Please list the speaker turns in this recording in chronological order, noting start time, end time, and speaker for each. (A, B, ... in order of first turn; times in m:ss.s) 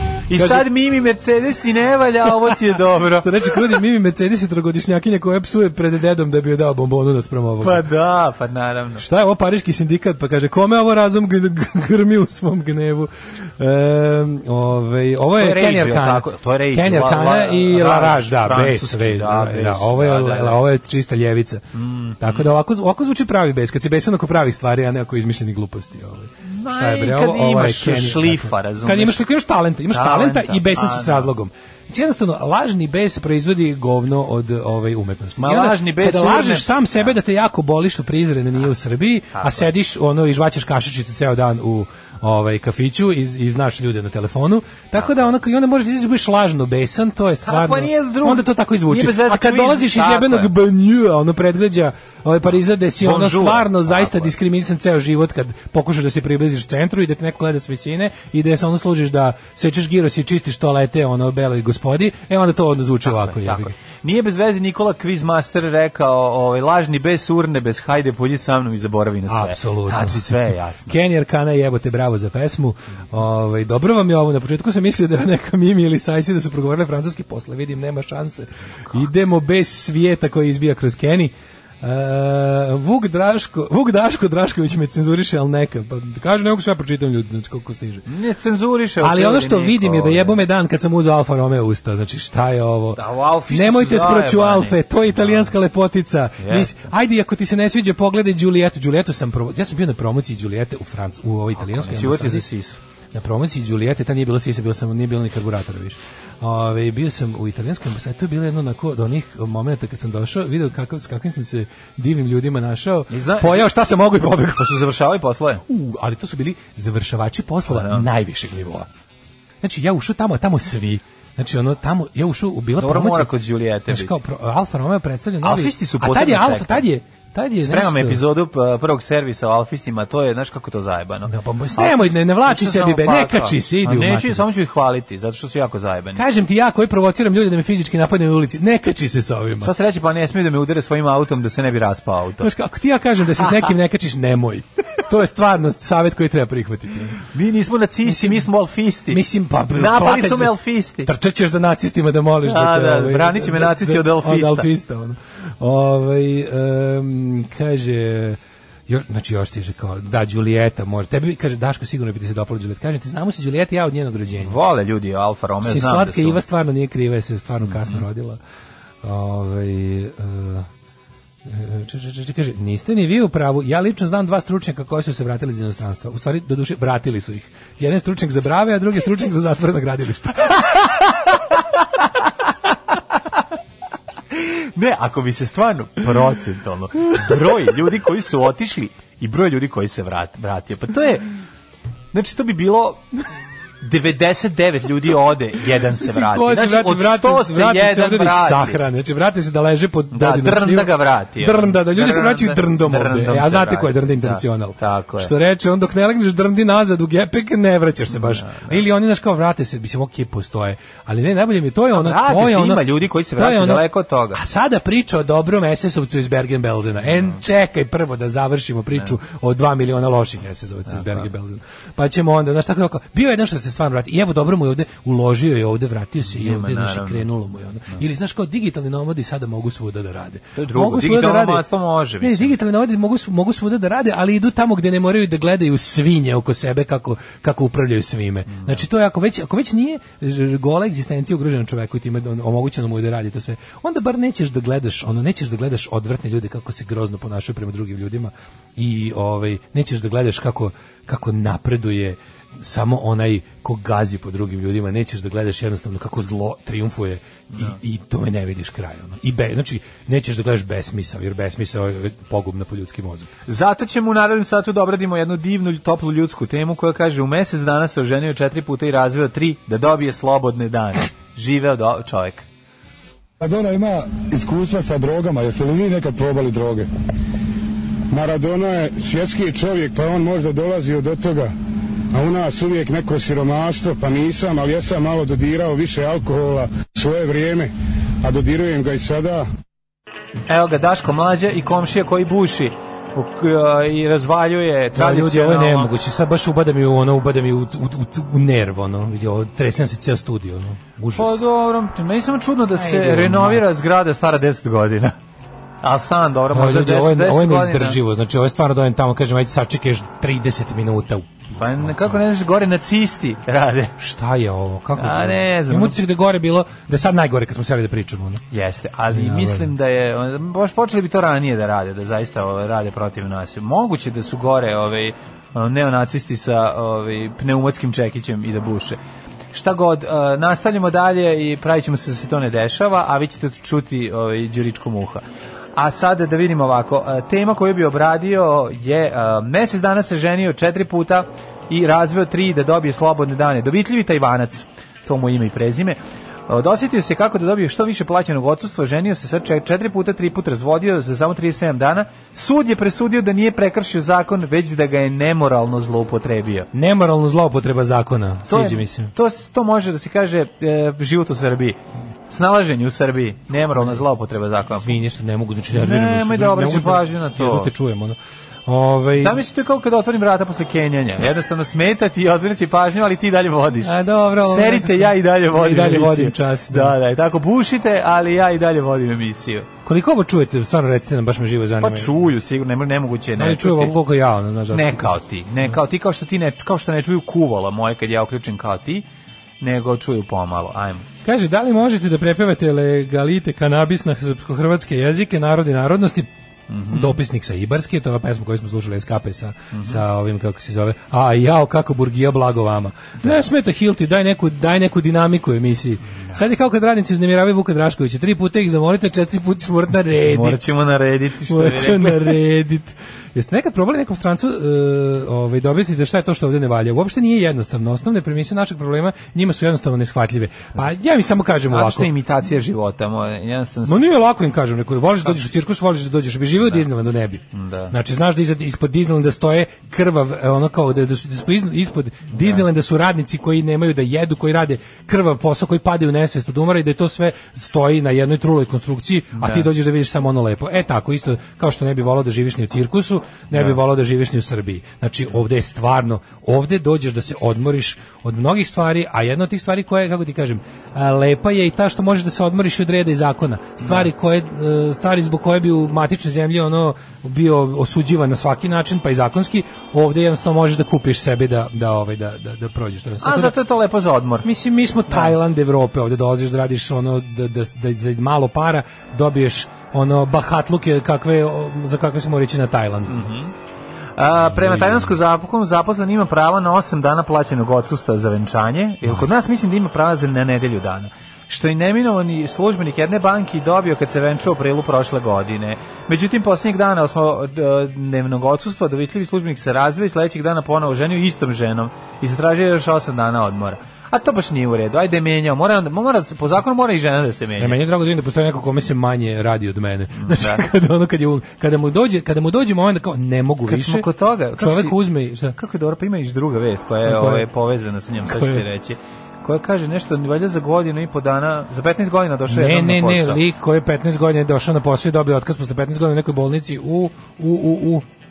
0:00.3-0:03.3 A
0:00.3-0:00.7 B
0:03.0-0:07.8 B
0:07.6-0:09.0 A
0:09.0-0:21.6 B
0:15.4-0:20.6 A
0:21.7-0:22.5 A
0:22.2-1:03.7 B
0:26.4-0:29.2 A
0:29.9-0:31.3 A
0:35.4-0:37.1 A
0:39.3-0:39.7 A
0:47.4-0:50.5 A
0:53.0-0:54.3 A
1:03.0-1:11.0 A
1:09.3-1:28.0 B
1:28.0-1:30.4 A
1:29.0-1:42.5 B
1:33.0-1:35.5 A
1:36.4-1:36.7 A
1:41.6-1:42.8 A
1:43.1-1:54.8 B
1:53.1-1:53.7 A
1:54.6-1:55.6 A
1:55.6-1:58.9 B
1:57.7-1:58.0 A
1:59.6-2:03.3 B
2:02.8-2:04.1 A
2:03.9-2:08.2 B
2:05.4-2:06.8 A
2:07.6-2:16.2 A
2:11.2-2:14.4 B
2:16.2-2:19.7 B
2:19.6-2:22.5 A
2:22.4-2:27.2 B
2:27.3-2:29.2 A
2:28.0-2:28.4 B
2:29.1-2:44.6 B
2:29.7-2:31.1 A
2:32.4-2:34.7 A
2:44.4-2:46.4 A
2:45.6-2:48.4 B
2:47.7-2:48.0 A
2:49.0-2:50.7 B
2:51.4-3:01.0 B
3:04.3-3:11.3 A
3:12.1-3:13.0 A
3:13.8-3:18.8 A
3:15.8-3:32.8 B
3:20.1-3:25.3 A
3:28.1-3:28.8 A
3:31.9-3:34.4 A
3:33.4-3:51.6 B
3:40.9-3:41.2 A
3:46.2-3:47.3 A
3:50.6-3:52.5 A
3:52.2-4:23.3 B
3:58.5-3:58.8 A
4:17.5-4:17.8 A
4:23.5-4:32.4 A
4:33.4-4:36.9 C
4:38.1-4:41.5 C
4:42.1-4:47.7 C
4:48.2-4:49.4 C
4:50.5-4:55.9 A
4:54.9-5:01.4 B
5:01.1-5:05.2 A
5:02.7-5:03.7 B
5:05.8-5:08.0 A
5:06.5-5:12.1 B
5:11.5-5:13.9 A
5:14.0-5:18.4 B
5:15.0-5:16.0 A
5:18.5-5:29.0 A
5:19.1-5:19.7 B
5:29.5-5:35.2 A
5:35.7-5:56.7 A
5:56.7-5:59.1 B
5:58.5-6:05.0 A
6:04.8-6:09.4 B
6:05.7-6:07.7 A
6:09.2-6:19.7 A
6:13.8-6:17.0 B
6:19.8-6:22.2 B
6:21.8-6:24.0 A
6:23.4-6:25.2 B
6:24.7-6:29.0 A
6:29.6-6:31.0 A
6:31.2-6:36.3 B
6:36.7-6:37.2 A
6:36.9-6:50.6 B
6:39.7-6:40.0 A
6:46.1-6:46.4 A
6:50.2-6:52.4 A
6:51.5-7:02.1 B
7:01.7-7:04.0 A
7:03.8-7:43.6 B
7:07.5-7:07.9 A
7:12.4-7:12.6 A
7:19.3-7:19.7 A
7:23.5-7:23.8 A
7:33.8-7:34.1 A
7:43.2-7:44.5 A
7:44.4-7:53.3 B
7:53.1-7:53.5 A
7:54.2-8:17.8 A
7:54.4-7:55.2 B
8:17.6-8:25.6 B
8:20.2-8:20.6 A
8:23.7-8:33.4 A
8:27.0-8:27.5 B
8:28.2-8:28.6 B
8:32.5-8:38.1 B